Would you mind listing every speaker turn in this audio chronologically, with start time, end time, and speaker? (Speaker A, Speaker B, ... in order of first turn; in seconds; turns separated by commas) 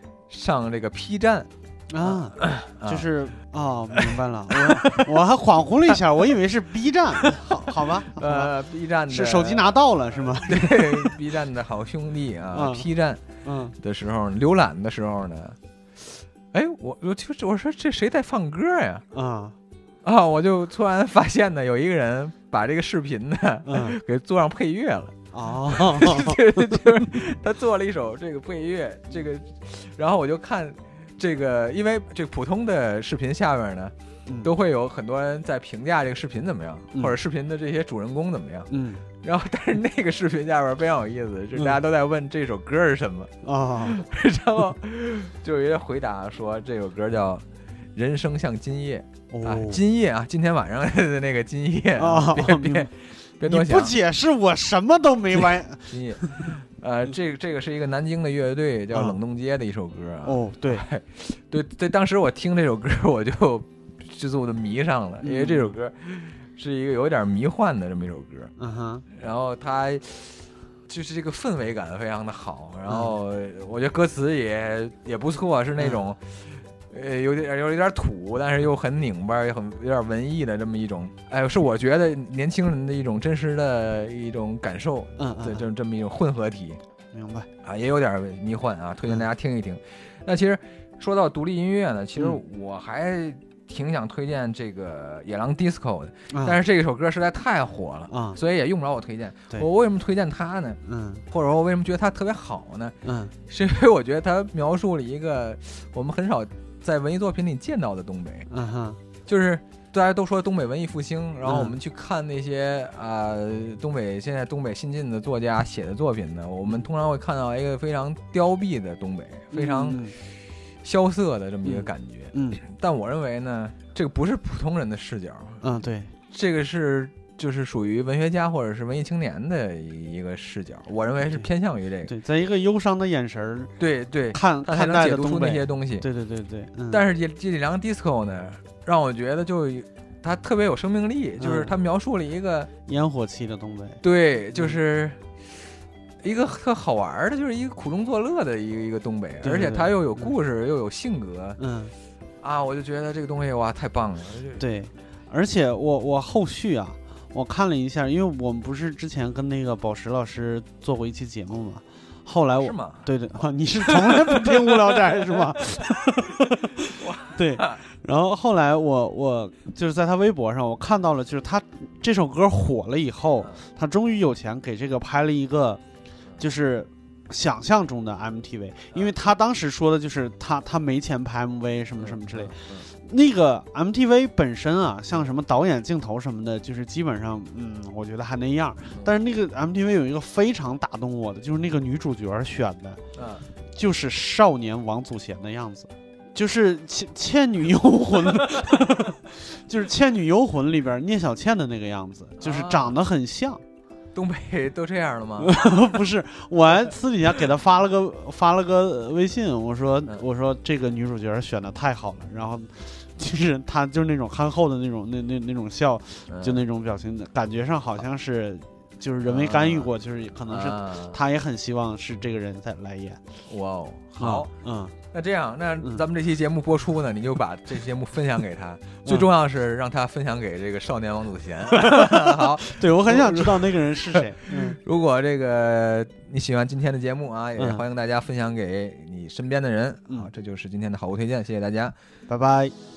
Speaker A: 0.3-1.5, Speaker B: 1.9-8.5, Speaker A: 2.0-3.1, Speaker A: 4.7-5.0, Speaker A: 8.1-9.7, Speaker B: 9.1-11.2, Speaker A: 10.3-13.2, Speaker B: 12.5-12.9, Speaker B: 13.4-13.8, Speaker A: 13.8-19.1, Speaker B: 19.1-19.6, Speaker A: 20.0-25.1, Speaker B: 23.7-24.0, Speaker B: 25.3-26.4, Speaker A: 25.7-43.3, Speaker B: 38.7-39.0, Speaker B: 43.4-44.0, Speaker A: 43.9-47.4, Speaker A: 48.0-54.0, Speaker B: 49.3-49.8, Speaker B: 52.0-52.9, Speaker B: 53.5-56.5, Speaker A: 55.3-68.5, Speaker B: 58.9-59.2, Speaker B: 60.2-60.8, Speaker B: 65.2-65.8, Speaker B: 68.6-69.1, Speaker A: 69.1-86.8, Speaker B: 72.9-73.1, Speaker B: 85.2-85.7, Speaker B: 87.1-87.5, Speaker A: 87.6-100.8, Speaker B: 96.3-96.6, Speaker B: 98.1-98.4, Speaker B: 100.8-101.2, Speaker A: 101.3-102.9, Speaker B: 103.0-103.3, Speaker A: 103.5-108.5, Speaker B: 108.5-109.0, Speaker A: 109.3-120.3, Speaker B: 111.5-111.8, Speaker B: 119.5-120.2, Speaker A: 120.8-125.6, Speaker B: 121.6-122.6, Speaker B: 125.6-126.1, Speaker A: 126.3-132.1, Speaker B: 132.1-133.7, Speaker A: 133.8-136.1, Speaker B: 134.3-137.0, Speaker A: 136.9-142.7, Speaker B: 141.4-141.8, Speaker B: 142.9-144.0, Speaker A: 144.0-145.2, Speaker A: 146.2-151.6, Speaker B: 149.4-150.3, Speaker B: 151.6-151.9, Speaker A: 152.4-154.7, Speaker B: 154.6-175.8, Speaker A: 162.6-163.1, Speaker A: 163.9-164.5, Speaker A: 167.0-167.7, Speaker B: 176.4-193.0, Speaker A: 182.0-182.9, Speaker A: 193.2-193.5, Speaker B: 193.7-203.6, Speaker A: 202.4-203.0, Speaker A: 204.1-205.8, Speaker B: 205.4-223.2, Speaker A: 216.3-216.6, Speaker A: 219.3-219.9, Speaker A: 220.5-221.2, Speaker A: 223.5-224.5, Speaker B: 224.2-224.9, Speaker A: 225.1-241.9, Speaker B: 231.8-234.8, Speaker B: 237.6-237.8, Speaker B: 242.3-242.7